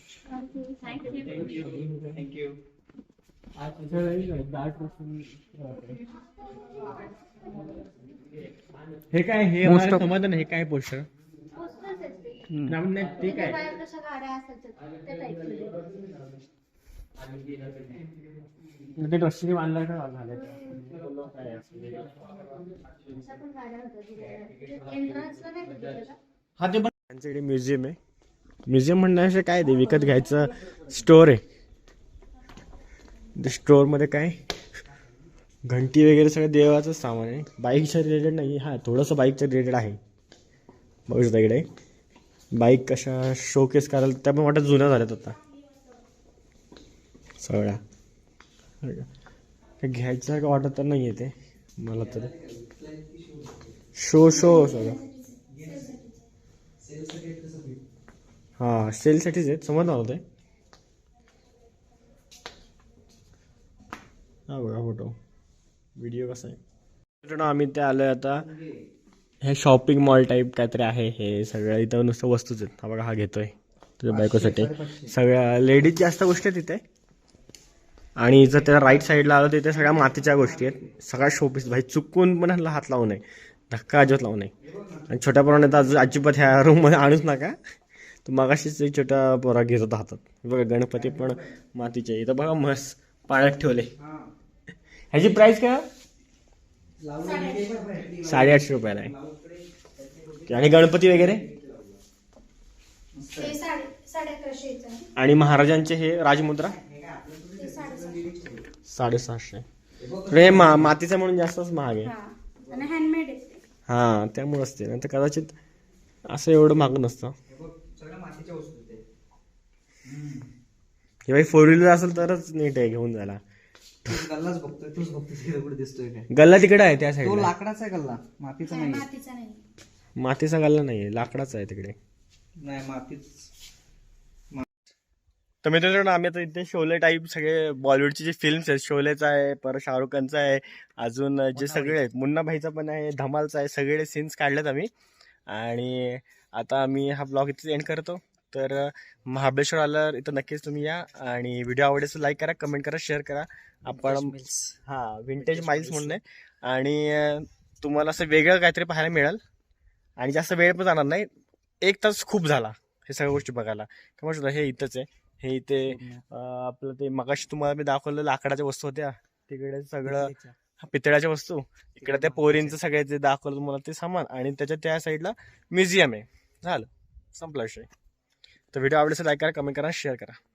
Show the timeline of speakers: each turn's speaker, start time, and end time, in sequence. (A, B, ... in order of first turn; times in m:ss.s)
0:00.3-0:01.0 A
0:01.0-0:02.2 B
0:01.1-0:02.6 C
0:03.6-0:06.0 B
0:09.1-0:11.1 B
0:09.6-0:10.0 C
0:11.5-0:12.5 A
0:12.5-0:12.8 C
0:12.7-0:13.6 B
0:13.2-0:15.8 A
0:19.0-0:22.2 B
0:23.2-0:26.2 A
0:26.6-0:28.0 B
0:28.7-0:31.4 B
0:33.4-0:34.4 B
0:35.7-0:40.0 B
0:41.1-0:41.7 B
0:42.5-0:45.4 B
0:47.4-0:47.8 B
0:48.8-0:49.1 B
0:49.8-0:52.3 B
0:52.1-0:53.7 C
0:54.0-0:55.0 B
0:54.3-0:56.2 A
0:55.6-0:55.9 C
0:56.8-0:57.8 C
0:58.6-1:00.2 B
1:04.5-1:05.2 B
1:06.0-1:06.6 B
1:07.2-1:08.5 B
1:09.4-1:16.8 B
1:14.1-1:15.1 C
1:18.2-1:24.5 B
1:24.6-1:25.1 C
1:25.1-1:27.6 B
1:28.2-1:33.9 B
1:34.0-1:34.3 C
1:35.1-1:35.8 B
1:37.0-1:42.0 C
1:37.2-1:37.6 A
1:38.2-1:39.1 B
1:40.5-1:41.4 B
1:43.2-1:43.6 C
1:43.4-1:45.0 A
1:45.2-1:46.8 B
1:46.8-1:48.6 C
1:47.6-1:48.3 A
1:48.9-1:49.6 B
1:50.0-1:50.9 C
1:50.3-1:52.1 B
1:52.0-1:53.6 A
1:53.9-1:55.6 B
1:56.3-1:57.3 B
1:57.5-1:59.0 C
2:00.0-2:00.5 C
2:01.3-2:03.4 B
2:04.0-2:06.3 C
2:06.3-2:07.5 B
2:07.2-2:09.1 C
2:08.7-2:09.6 A
2:10.2-2:12.0 B
2:12.6-2:13.3 C
2:15.6-2:24.9 B
2:21.5-2:22.0 C
2:25.5-2:34.3 B
2:34.0-2:34.8 C
2:34.9-2:39.4 B
2:35.4-2:36.2 C
2:40.2-2:41.3 B
2:41.8-2:57.9 B
2:45.9-2:46.2 C
2:50.0-2:50.5 C
2:52.0-2:52.8 C
2:58.7-3:00.4 B